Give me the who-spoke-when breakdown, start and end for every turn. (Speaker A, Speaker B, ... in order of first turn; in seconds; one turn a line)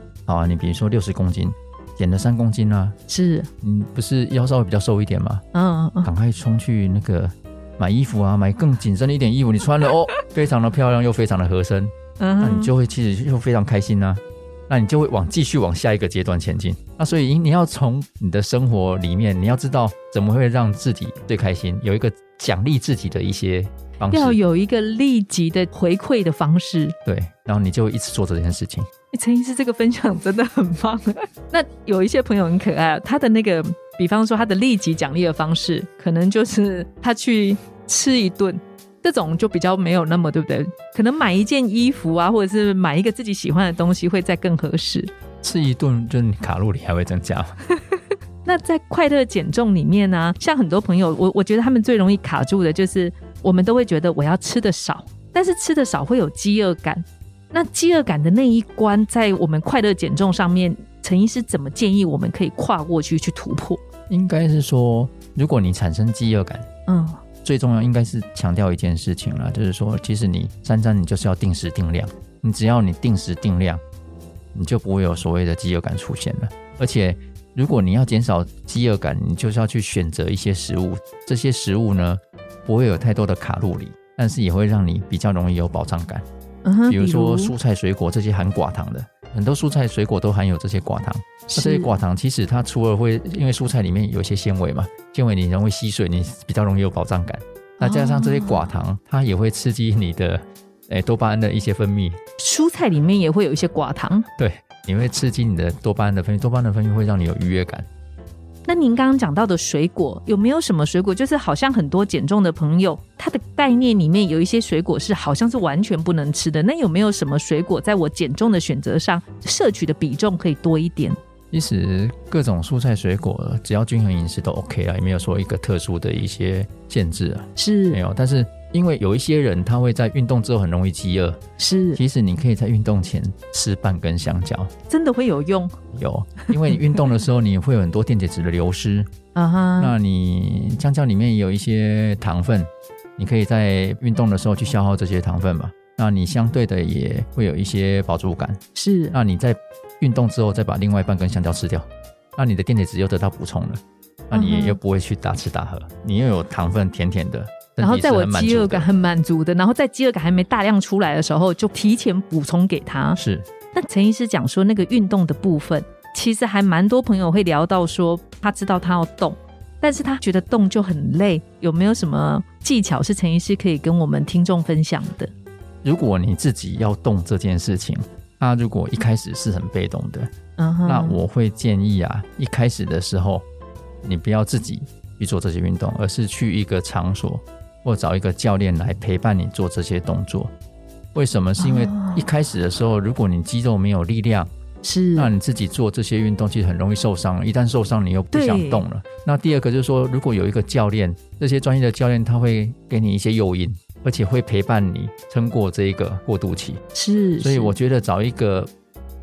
Speaker A: 0.3-3.0
Speaker B: 3.1-3.5
Speaker A: 3.6-5.4
Speaker B: 5.5-6.1
Speaker A: 6.0-24.4
Speaker B: 12.2-12.7
Speaker B: 24.1-26.9
Speaker A: 27.1-28.9
Speaker B: 29.1-45.1
Speaker A: 45.4-47.5
Speaker B: 47.9-63.8
Speaker A: 64.1-66.7
Speaker B: 66.9-67.2
Speaker A: 67.5-73.8
Speaker A: 74.5-86.2
Speaker B: 86.7-87.5
Speaker A: 86.9-102.2
Speaker B: 91.5-91.9
Speaker B: 97.8-98.7
Speaker B: 102.4-104.3
Speaker A: 104.4-107.9
Speaker B: 108.7-121.2
Speaker A: 121.5-131.4
Speaker B: 127.6-128.0
Speaker B: 131.6-132.0
Speaker A: 131.9-134.7
Speaker B: 134.9-135.8
Speaker A: 135.9-139.1
Speaker B: 139.3-139.9
Speaker A: 139.8-148.6
Speaker B: 148.8-149.2
Speaker A: 149.1-158.9
Speaker B: 154.3-154.8
Speaker B: 157.8-163.2
Speaker A: 163.2-163.5
Speaker B: 163.7-175.3
Speaker A: 175.8-180.3
Speaker B: 180.6-181.2
Speaker A: 180.9-183.4
Speaker A: 184.0-190.5
Speaker A: 191.2-194.5
Speaker B: 191.6-192.3
Speaker B: 194.8-195.3
Speaker A: 195.2-206.8
Speaker B: 198.3-198.8
Speaker B: 206.9-207.8
Speaker A: 207.4-208.7